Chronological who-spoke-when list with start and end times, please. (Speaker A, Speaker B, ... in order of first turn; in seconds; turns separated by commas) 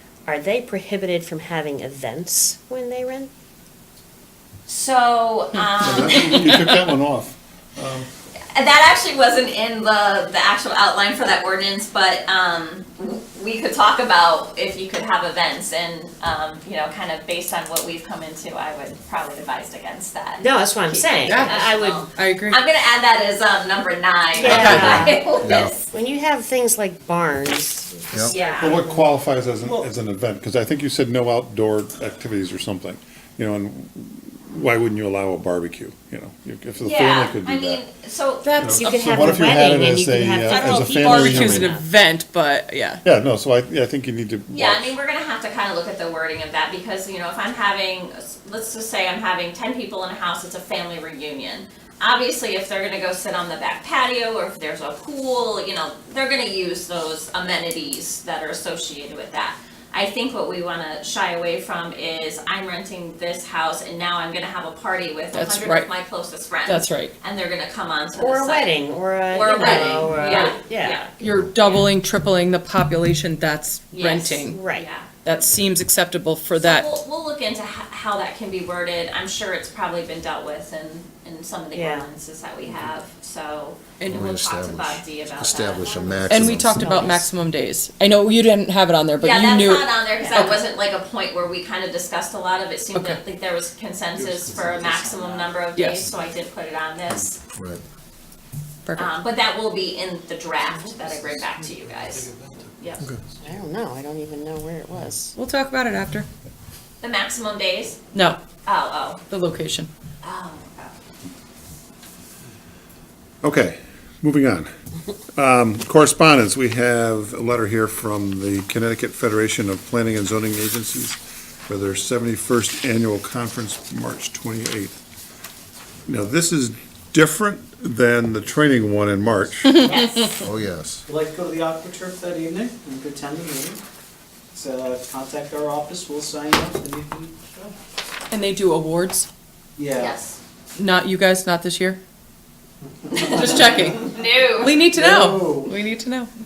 Speaker A: 0.2-3.3, Speaker B: 4.7-6.5, Speaker C: 5.5-6.9, Speaker D: 5.8-8.1, Speaker B: 8.5-25.9, Speaker A: 20.4-22.0, Speaker C: 21.2-22.6, Speaker A: 24.3-25.3, Speaker C: 24.5-25.0, Speaker E: 25.4-25.7, Speaker A: 25.9-29.1, Speaker B: 28.3-28.8, Speaker D: 28.6-37.8, Speaker B: 36.8-38.6, Speaker C: 38.4-39.2, Speaker D: 38.6-41.7, Speaker A: 38.8-41.9, Speaker C: 40.5-43.0, Speaker D: 43.0-44.9, Speaker B: 44.5-68.7, Speaker C: 65.3-65.9, Speaker C: 66.7-67.1, Speaker A: 68.2-71.1, Speaker B: 69.3-71.8, Speaker C: 69.6-70.5, Speaker C: 71.2-74.6, Speaker B: 73.9-75.1, Speaker A: 74.5-74.9, Speaker C: 75.1-77.0, Speaker B: 76.6-86.0, Speaker A: 81.7-82.1, Speaker C: 84.0-84.3, Speaker E: 84.1-86.8, Speaker A: 85.8-87.2, Speaker C: 86.3-90.6, Speaker B: 89.2-97.4, Speaker C: 92.9-93.2, Speaker C: 95.7-96.1, Speaker E: 97.5-97.8, Speaker C: 98.8-99.1, Speaker B: 99.0-103.0, Speaker A: 103.4-105.3, Speaker C: 105.3-106.3, Speaker B: 107.0-108.0, Speaker C: 108.1-108.4, Speaker B: 108.6-109.2, Speaker C: 109.3-109.9, Speaker B: 110.2-110.9, Speaker D: 113.4-114.7, Speaker D: 115.3-125.0, Speaker D: 126.1-129.8, Speaker C: 129.6-130.3, Speaker B: 129.8-130.3, Speaker F: 129.9-130.2, Speaker E: 130.4-131.1, Speaker F: 131.1-133.8, Speaker F: 134.5-137.7, Speaker C: 138.3-139.3, Speaker F: 139.8-140.2, Speaker B: 139.9-140.4, Speaker C: 140.8-142.0, Speaker F: 143.0-144.1, Speaker B: 143.1-143.4, Speaker C: 143.1-146.3, Speaker B: 144.1-144.8, Speaker F: 144.8-145.8